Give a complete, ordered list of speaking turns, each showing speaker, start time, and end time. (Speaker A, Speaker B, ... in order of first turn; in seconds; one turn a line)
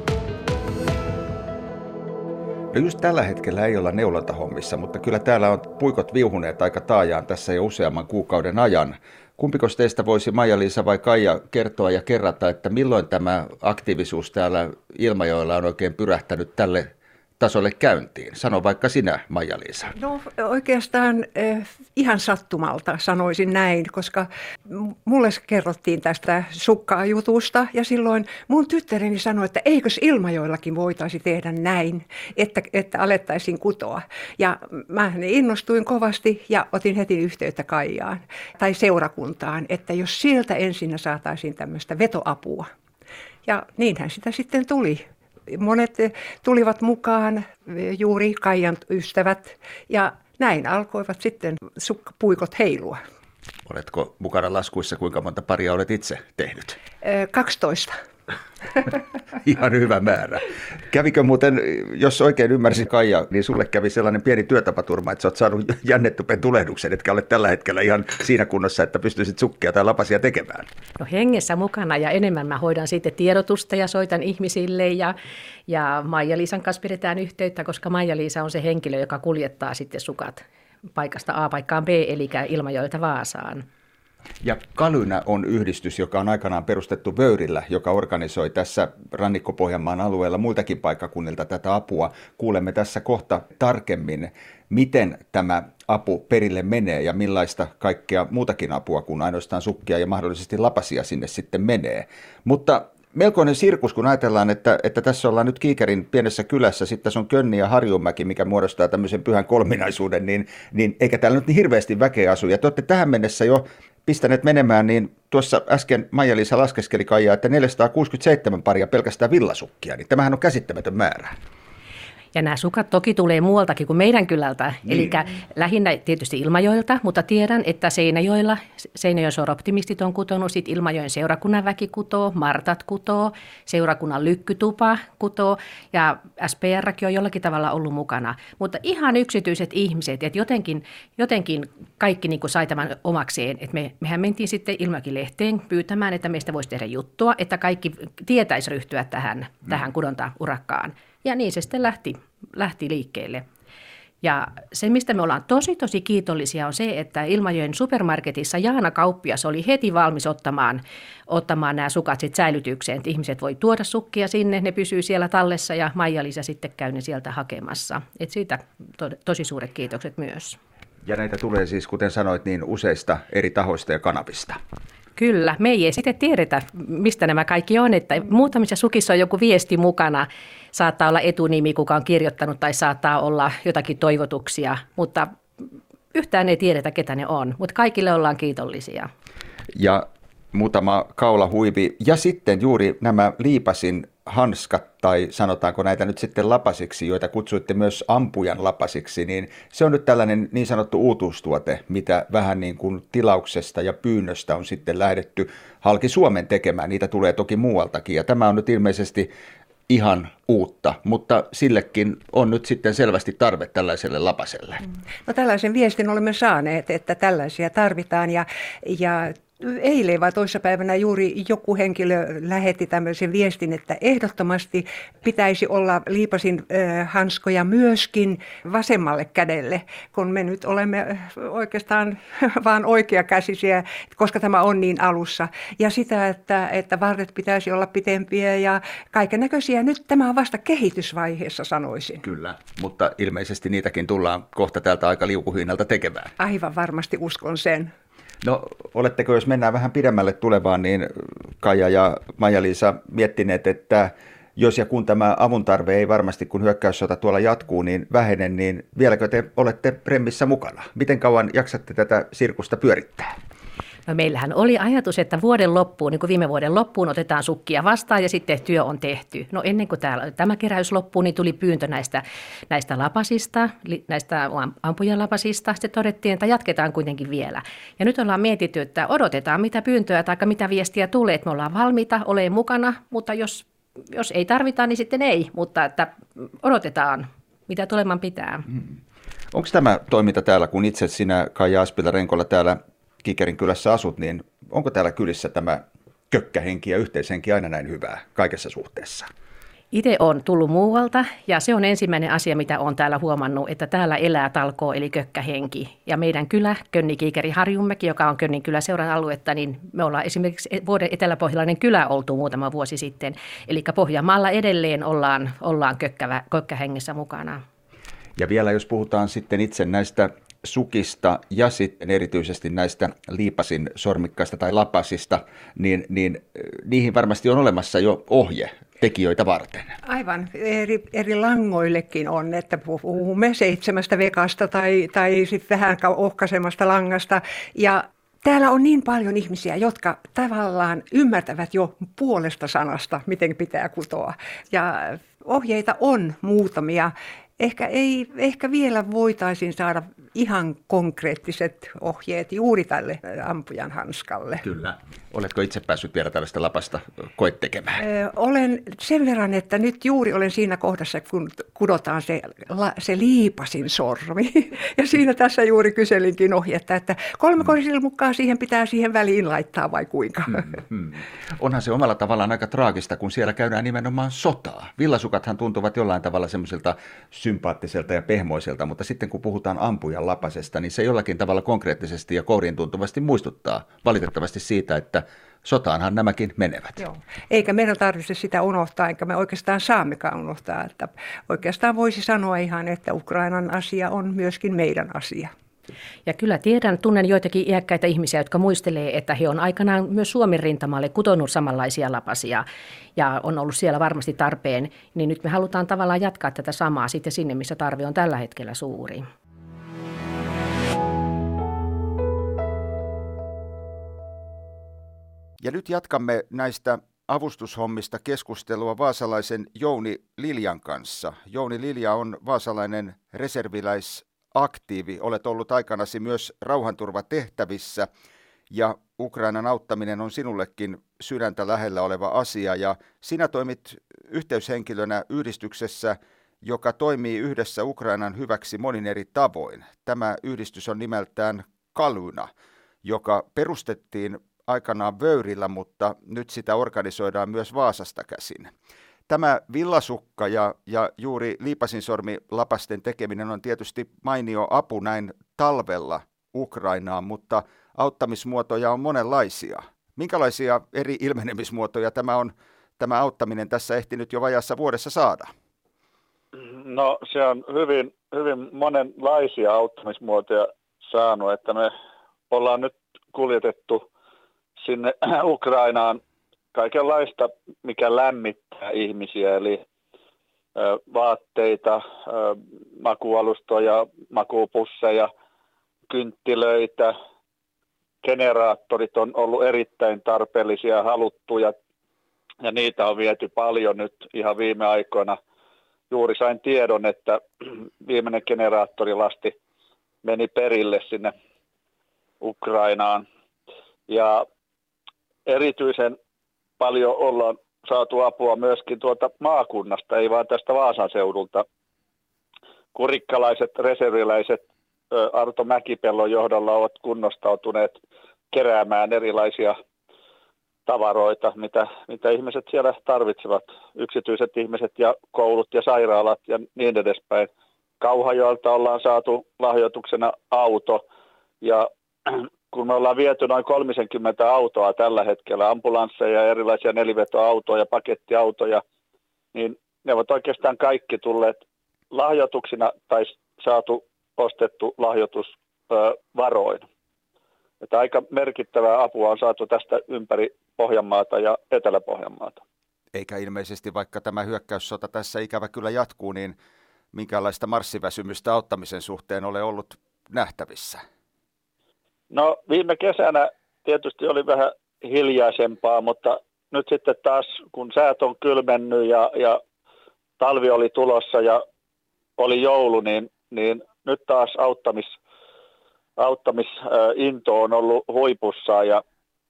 Speaker A: 2.7-16.9
Speaker A: 17.4-19.9
Speaker B: 20.0-42.7
Speaker B: 43.5-53.0
Speaker A: 53.7-56.8
Speaker B: 57.0-58.0
Speaker A: 59.4-70.7
Speaker C: 71.0-75.1
Speaker C: 75.7-80.4
Speaker C: 80.9-83.6
Speaker A: 84.4-121.3
Speaker C: 122.3-153.4
Speaker C: 154.2-170.6
Speaker A: 171.0-174.6
Speaker C: 175.1-185.3
Speaker C: 186.1-189.1
Speaker A: 189.8-209.3
Speaker A: 209.9-214.8
Speaker B: 215.2-242.2
Speaker A: 242.2-246.3
Speaker B: 246.4-247.9
Speaker A: 248.4-263.3
Speaker C: 264.1-288.6
Speaker A: 289.5-299.3
Speaker C: 299.9-317.6
Speaker A: 318.4-329.9
Speaker B: 330.1-354.6
Speaker A: 354.6-358.0
Speaker B: 358.0-370.7
Speaker A: 370.7-387.0
Speaker B: 387.0-395.5
Speaker C: 396.2-402.6
Speaker C: 403.1-409.2
Speaker A: 415.6-428.1
Speaker A: 428.7-442.5
Speaker A: 443.0-448.7
Speaker A: 449.3-465.5
Speaker D: 466.6-471.9
Speaker D: 472.5-474.0
Speaker D: 474.8-476.2
Speaker D: 476.7-479.8
Speaker D: 480.8-485.3
Speaker D: 486.1-487.1
Speaker D: 488.2-491.7
Speaker D: 492.6-495.4
Speaker D: 496.1-499.6
Speaker D: 500.2-501.3
Speaker D: 502.4-503.2
Speaker D: 504.1-504.4
Speaker D: 505.4-506.2
Speaker D: 506.8-511.6
Speaker D: 513.0-518.0
Speaker D: 518.5-519.8
Speaker D: 520.9-527.5
Speaker D: 528.0-531.0
Speaker D: 531.6-538.8
Speaker D: 539.5-541.6
Speaker D: 542.1-546.8
Speaker D: 547.8-552.6
Speaker A: 553.1-556.5
Speaker A: 557.1-561.0
Speaker D: 562.3-569.6
Speaker D: 570.4-571.6
Speaker D: 572.4-575.1
Speaker D: 576.2-579.0